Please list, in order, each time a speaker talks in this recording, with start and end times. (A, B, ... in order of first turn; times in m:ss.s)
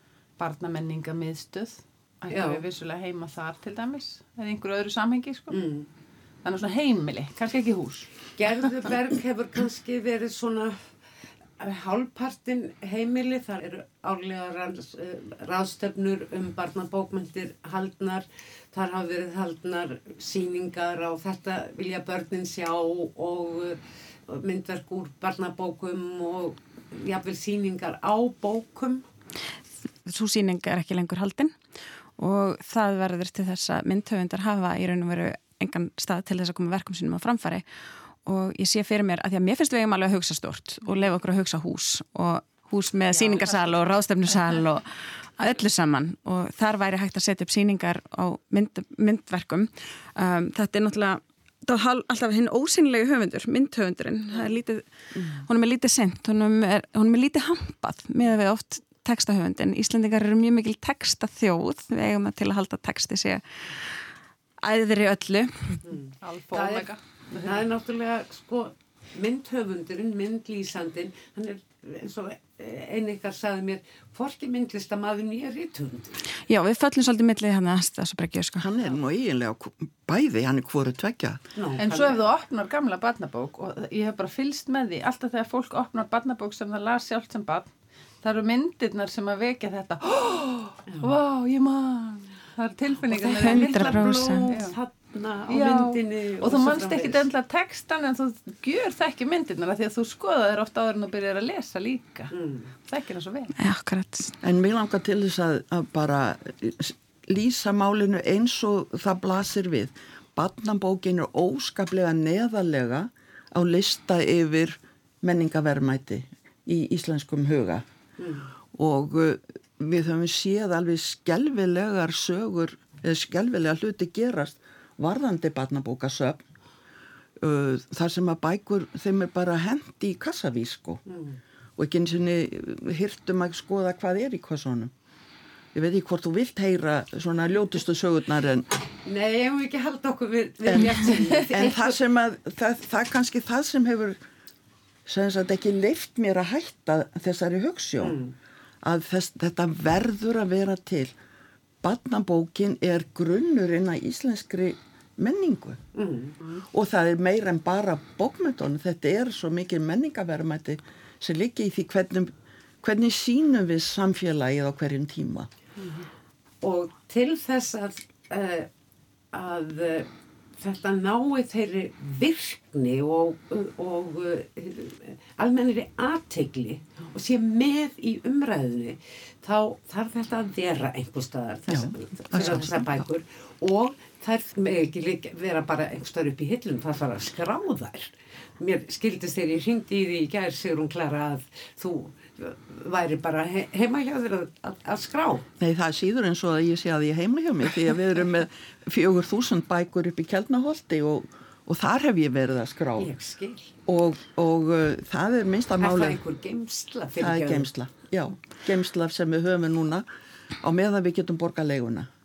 0:00.4-0:05.6 A
0:02.3-0:02.6 B
0:05.5-0:05.9 B
0:06.4-0:08.1 A
0:08.4-0:10.9 B
0:11.6-0:29.0 B
0:30.0-0:31.6 C
0:32.2-0:37.6 C
0:38.2-1:03.9 C
0:43.2-0:43.7 A
1:04.6-1:05.8 C
1:05.9-1:16.2 B
1:06.2-1:07.6 A
1:16.4-1:18.7 C
1:18.6-1:21.4 D
1:21.5-1:22.2 B
1:21.8-1:34.7 A
1:30.9-1:31.1 B
1:33.0-1:37.2 B
1:33.4-1:34.5 C
1:35.5-1:43.5 A
1:42.3-1:42.7 B
1:43.6-1:44.3 C
1:44.4-1:57.8 D
1:58.2-1:58.5 B
1:58.7-2:06.4 D
2:07.4-2:11.0 D
2:11.1-2:11.4 B
2:11.8-2:14.9 D
2:15.7-2:18.7 D
2:19.0-2:21.9 B
2:20.7-2:21.0 D
2:21.1-2:21.3 A
2:21.5-2:24.2 D
2:25.0-2:28.2 D
2:28.0-2:28.3 B
2:28.8-2:31.2 D
2:31.8-2:35.8 D
2:35.9-2:36.3 B
2:36.7-2:45.5 D
2:46.6-2:48.7 B
2:49.3-3:15.5 B
3:01.7-3:03.0 D
3:15.6-3:23.1 D
3:23.0-3:23.7 B
3:23.8-3:26.2 D
3:25.8-3:27.7 B
3:27.2-3:30.1 D
3:30.6-3:32.1 D